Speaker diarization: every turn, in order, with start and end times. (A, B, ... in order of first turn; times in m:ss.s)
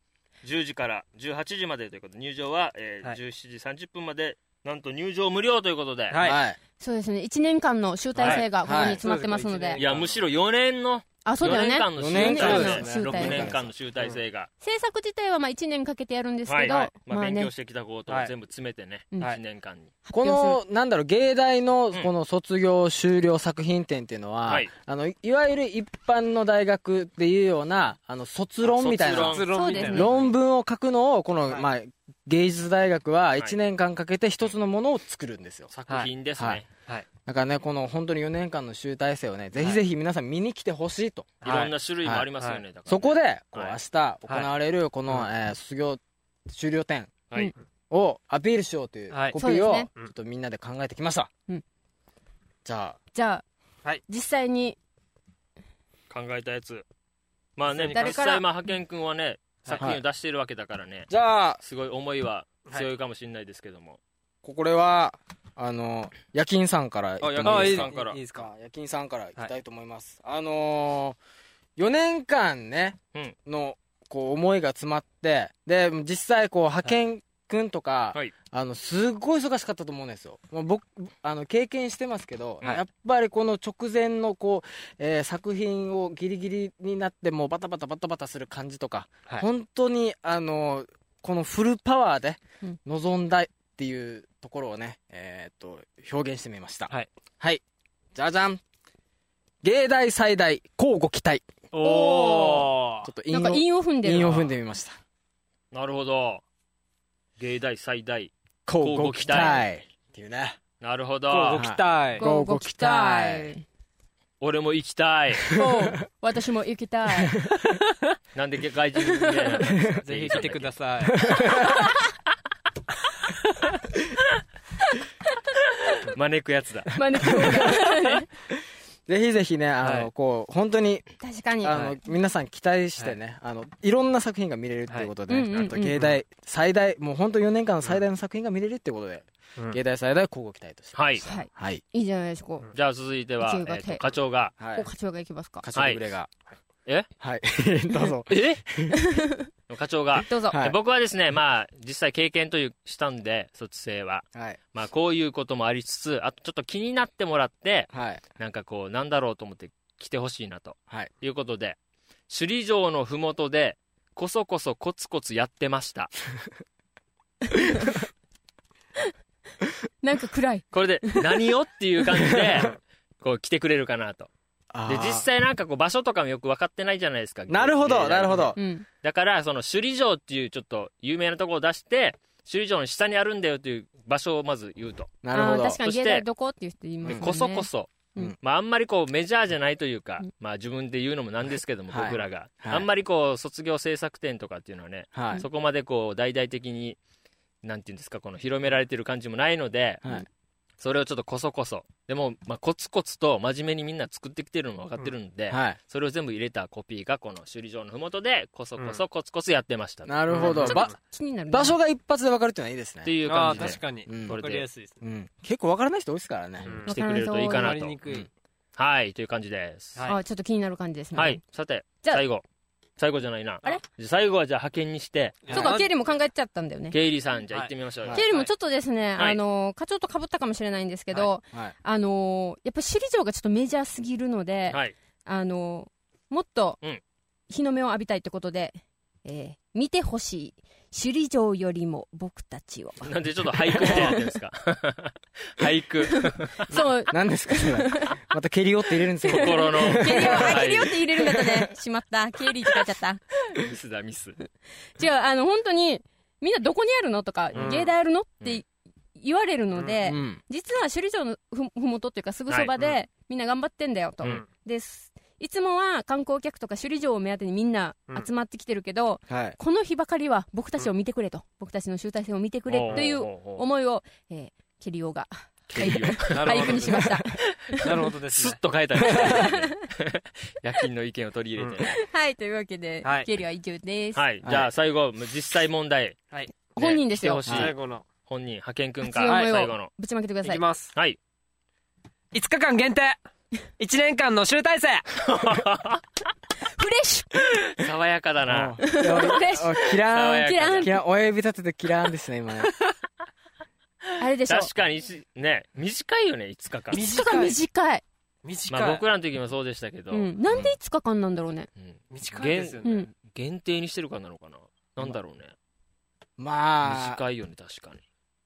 0:00.4-0:06.2 A
0:06.1-0:06.4 B
0:06.2-0:06.6 C
0:06.8-0:09.8 D
0:08.2-0:10.2 B
0:08.6-0:09.0 C
0:09.8-0:14.5 A
0:11.2-0:13.5 D
0:12.0-0:13.7 C
0:12.3-0:13.0 B
0:14.6-0:17.5 D
0:16.5-0:19.9 A
0:20.0-0:20.6 D
0:20.1-0:35.7 C
0:28.6-0:29.6 A
0:29.3-0:30.2 B
0:29.5-0:30.1 D
0:35.7-0:36.7 A
0:37.2-0:41.4 C
0:41.4-0:41.7 B
0:41.4-0:43.8 A
0:42.9-0:47.2 C
0:47.9-0:51.3 C
0:49.1-0:49.4 B
0:49.4-0:49.9 D
0:52.6-0:53.0 C
0:53.1-0:53.4 D
0:54.1-0:54.8 D
0:56.1-0:56.8 A
0:57.6-1:01.1 A
0:57.8-0:58.2 B
0:57.9-0:58.4 D
1:01.1-1:01.6 C
1:01.6-1:04.0 A
1:04.4-1:11.2 C
1:07.2-1:08.2 A
1:07.2-1:08.5 B
1:11.8-1:37.6 C
1:38.2-1:38.6 C
1:39.6-1:41.5 C
1:41.7-1:43.1 B
1:41.8-1:42.7 D
1:42.2-1:42.6 A
1:43.0-1:45.0 C
1:43.3-1:44.4 D
1:44.2-1:44.5 B
1:45.7-1:46.4 A
1:47.4-1:49.6 A
1:48.7-1:50.6 C
1:50.8-1:51.6 A
1:51.3-1:52.2 B
1:51.5-1:53.5 C
1:52.2-1:53.6 D
1:54.4-1:55.5 A
1:55.5-1:57.4 D
1:57.4-1:57.7 C
1:58.4-2:00.7 A
1:59.0-1:59.6 D
1:59.6-2:00.0 C
2:00.0-2:01.3 B
2:01.2-2:01.8 C
2:05.9-2:06.9 A
2:07.0-2:08.3 D
2:07.2-2:07.9 C
2:09.1-2:11.1 C
2:09.8-2:10.1 B
2:11.2-2:11.8 D
2:11.6-2:21.8 C
2:11.7-2:12.0 B
2:15.3-2:15.9 D
2:15.8-2:16.2 B
2:21.0-2:21.2 A
2:21.2-2:22.7 D
2:22.7-2:24.5 A
2:23.4-2:24.0 D
2:24.6-2:24.9 C
2:24.6-2:25.6 D
2:25.6-2:26.3 C
2:25.8-2:26.0 A
2:27.2-2:29.0 C
2:28.3-2:28.6 A
2:28.9-2:29.5 D
2:29.7-2:41.8 A
2:30.2-2:30.6 D
2:37.9-2:38.2 C
2:42.3-2:46.1 A
2:47.5-2:48.0 D
2:50.0-2:51.4 D
2:50.7-2:54.3 A
2:54.7-2:55.3 C
2:54.9-3:05.2 A
2:57.5-2:58.6 C
2:58.6-2:58.8 D
3:05.2-3:05.8 C
3:05.3-3:08.3 D
3:05.8-3:06.2 A
3:07.1-3:17.0 A
3:11.9-3:12.9 C
3:15.1-3:15.4 C
3:17.6-3:20.0 A
3:20.8-3:30.7 A
3:25.5-3:25.8 C
3:28.8-3:29.0 B
3:30.1-3:31.0 C
3:30.3-3:30.9 B
3:30.4-3:31.8 D
3:31.5-3:34.4 C
3:33.0-3:34.7 A
3:33.3-3:35.0 B
3:35.0-3:36.8 C
3:36.7-3:38.0 A
3:36.7-3:36.9 B
3:36.9-3:37.8 D
3:37.5-3:38.3 B
3:38.8-3:40.0 A
3:40.1-3:41.4 D
3:41.2-3:42.4 A
3:43.0-3:45.7 A
3:45.4-3:45.9 B
3:45.5-3:47.0 D
3:46.9-3:48.3 A
3:47.5-3:48.5 B
3:48.1-3:56.8 D
3:57.5-4:03.1 D
4:03.0-4:06.8 A
4:03.7-4:04.2 D
4:06.1-4:08.2 D
4:07.1-4:10.7 C
4:09.2-4:13.2 D
4:09.3-4:11.0 A
4:11.4-4:11.7 C
4:13.5-4:14.4 A
4:15.0-4:37.9 D
4:17.5-4:17.8 A
4:17.6-4:17.9 B
4:20.0-4:20.4 C
4:29.3-4:29.6 C
4:32.7-4:33.6 A
4:35.7-4:36.8 A
4:36.3-4:37.1 B
4:37.8-4:38.6 B
4:38.3-4:42.0 A
4:39.1-4:39.8 D
4:41.6-4:41.8 B
4:41.8-4:44.2 D
4:43.0-4:43.3 B
4:44.2-4:46.2 A
4:44.4-4:44.7 C
4:46.8-4:47.4 D
4:46.8-4:49.9 A
4:47.5-4:47.7 C
4:47.5-4:48.0 B
4:49.0-4:50.6 D
4:49.2-4:49.5 B
4:50.4-4:50.9 B
4:52.3-4:53.2 B
4:53.8-4:55.1 B
4:55.2-4:56.0 A
4:56.8-4:57.6 D
4:57.8-4:58.8 A
4:58.5-5:02.7 C
4:58.8-5:01.0 D
5:00.1-5:00.9 A
5:04.2-5:04.7 D
5:04.5-5:07.0 A
5:06.9-5:08.0 D
5:06.9-5:07.6 B
5:08.4-5:09.0 B
5:08.7-5:10.7 A
5:10.1-5:11.7 D
5:11.8-5:15.5 A
5:12.1-5:13.0 B
5:12.8-5:13.1 D
5:16.4-5:17.2 C
5:16.8-5:18.0 A